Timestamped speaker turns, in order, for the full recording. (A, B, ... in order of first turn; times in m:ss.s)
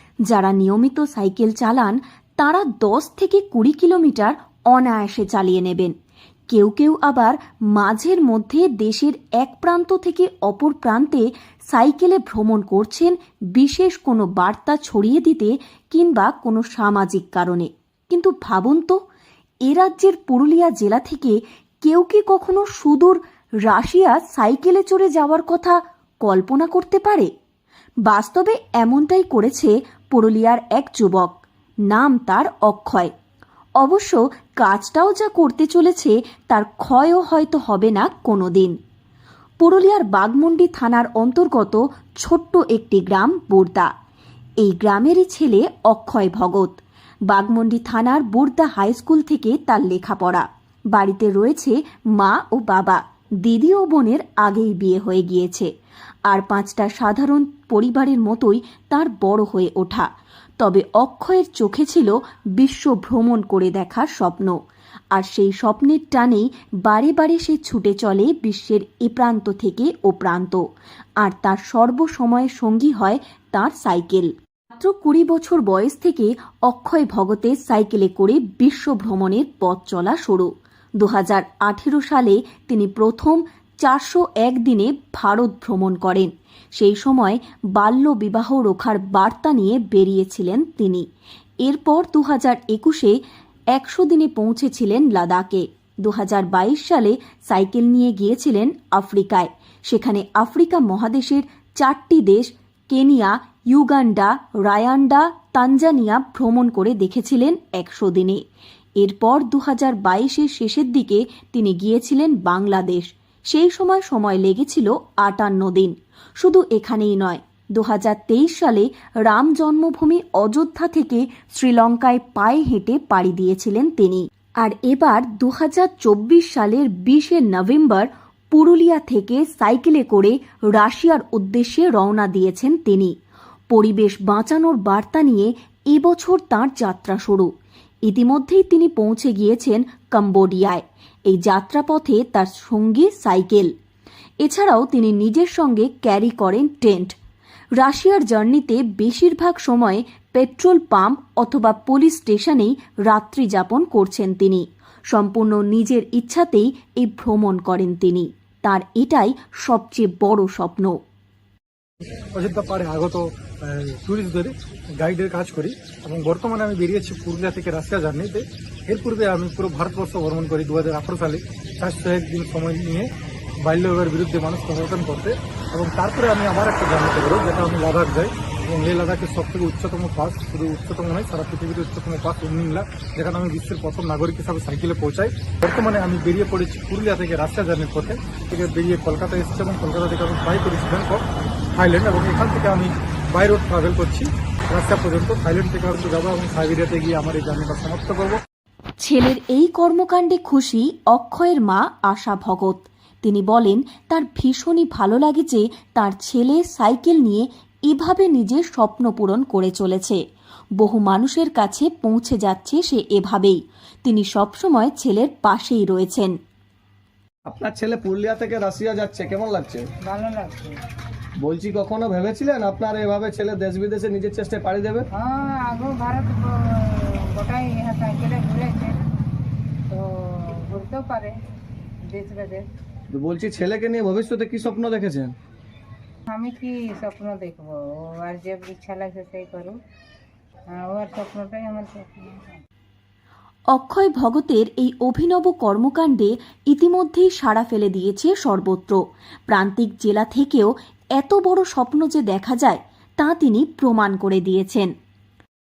0:00.3-0:05.9 A
0:06.5-0:19.0 A
0:19.6-0:27.3 A
0:28.0-0:33.1 A
0:33.8-0:38.7 A
0:39.6-0:43.9 A
0:44.6-0:46.8 A
0:47.3-0:55.7 A
0:56.3-1:00.1 A
1:00.6-1:04.5 A
1:05.1-1:10.6 A
1:11.2-1:31.0 A
1:31.6-1:33.2 A
1:33.7-1:48.4 A
1:49.0-2:13.1 A
2:13.7-2:17.5 A
2:18.0-2:23.7 A
2:24.4-2:27.1 A
2:27.8-2:41.0 A
2:42.3-2:53.1 B
2:53.6-3:11.2 B
3:11.7-3:18.4 B
3:19.0-3:30.2 A
3:30.8-3:36.3 A
3:37.5-3:39.8 C
3:40.0-3:40.8 D
3:41.4-3:45.0 C
3:45.1-3:49.0 D
3:49.9-3:51.4 D
3:52.0-3:52.6 D
3:53.1-3:55.3 C
3:56.3-3:59.8 D
4:00.7-4:02.6 D
4:03.7-4:14.9 A